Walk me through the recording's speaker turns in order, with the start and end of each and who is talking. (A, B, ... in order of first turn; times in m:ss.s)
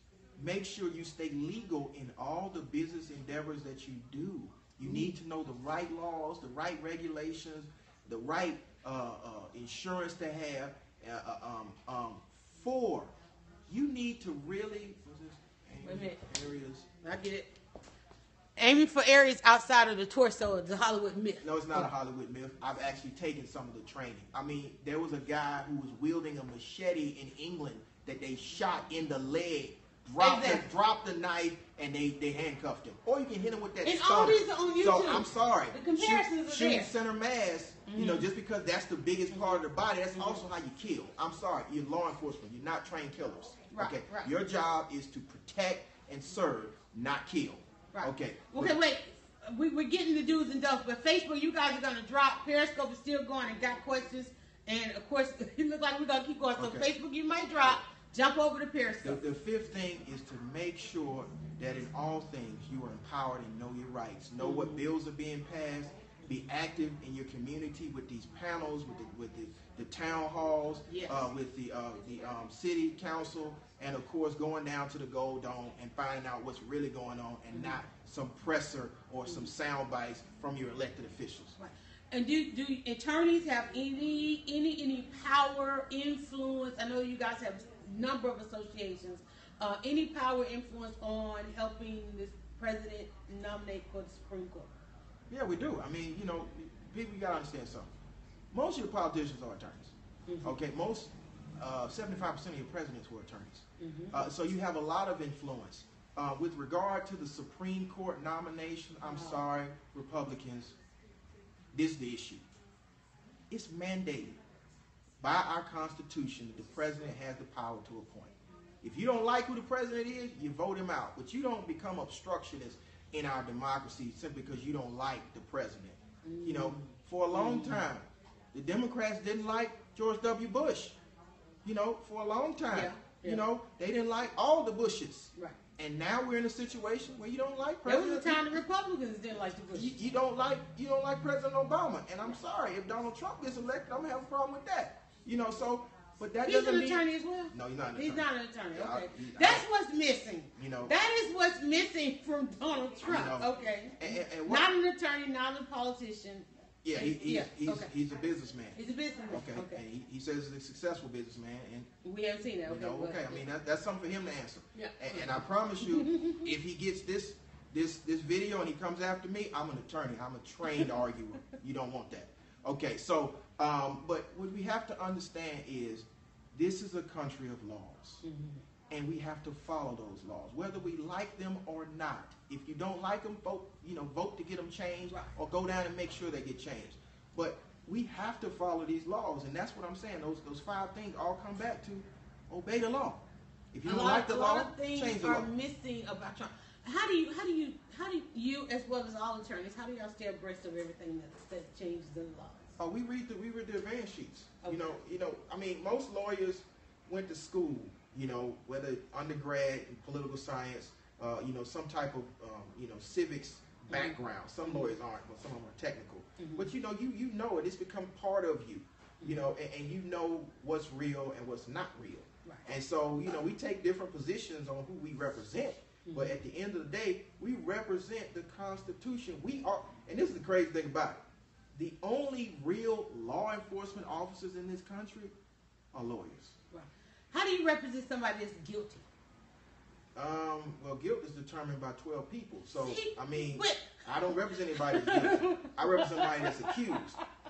0:00.4-0:13.1 A
0:04.8-0:05.1 B
0:13.7-0:16.9 A
0:15.8-0:16.2 B
0:17.0-0:17.5 B
0:18.6-0:21.9 B
0:21.4-0:48.8 A
0:30.2-0:30.7 B
0:33.8-0:36.9 B
0:37.9-0:38.2 B
0:39.3-0:39.6 B
0:40.1-0:40.4 B
0:43.7-0:44.3 B
0:47.9-0:59.2 B
0:56.6-0:56.9 A
0:59.0-1:21.6 A
1:04.4-1:04.9 B
1:10.9-1:11.2 B
1:17.5-1:17.8 B
1:21.6-1:34.7 B
1:35.3-1:37.9 A
1:38.5-1:50.7 A
1:40.3-1:40.6 B
1:43.8-1:44.2 B
1:49.0-1:49.4 B
1:51.7-1:52.4 A
1:53.5-1:54.4 A
1:55.2-2:11.0 A
2:06.2-2:07.8 B
2:11.6-2:18.6 A
2:12.7-2:13.4 B
2:17.8-2:19.9 B
2:19.7-2:29.6 A
2:26.4-2:37.9 B
2:30.6-2:30.9 A
2:33.0-2:34.7 A
2:36.8-2:38.8 A
2:38.7-2:39.8 B
2:39.3-2:41.9 A
2:42.0-2:43.4 B
2:42.7-2:58.2 A
2:44.7-2:46.4 B
2:58.2-2:58.6 B
2:58.9-3:15.5 A
3:13.8-3:22.7 B
3:22.8-3:51.2 A
3:24.6-3:24.9 B
3:33.9-3:34.9 B
3:36.4-3:36.7 B
3:46.0-3:46.3 B
3:51.7-3:55.3 A
3:55.9-3:56.5 A
3:56.7-3:59.0 B
4:00.1-4:07.2 A
4:02.8-4:04.0 B
4:04.7-4:07.2 B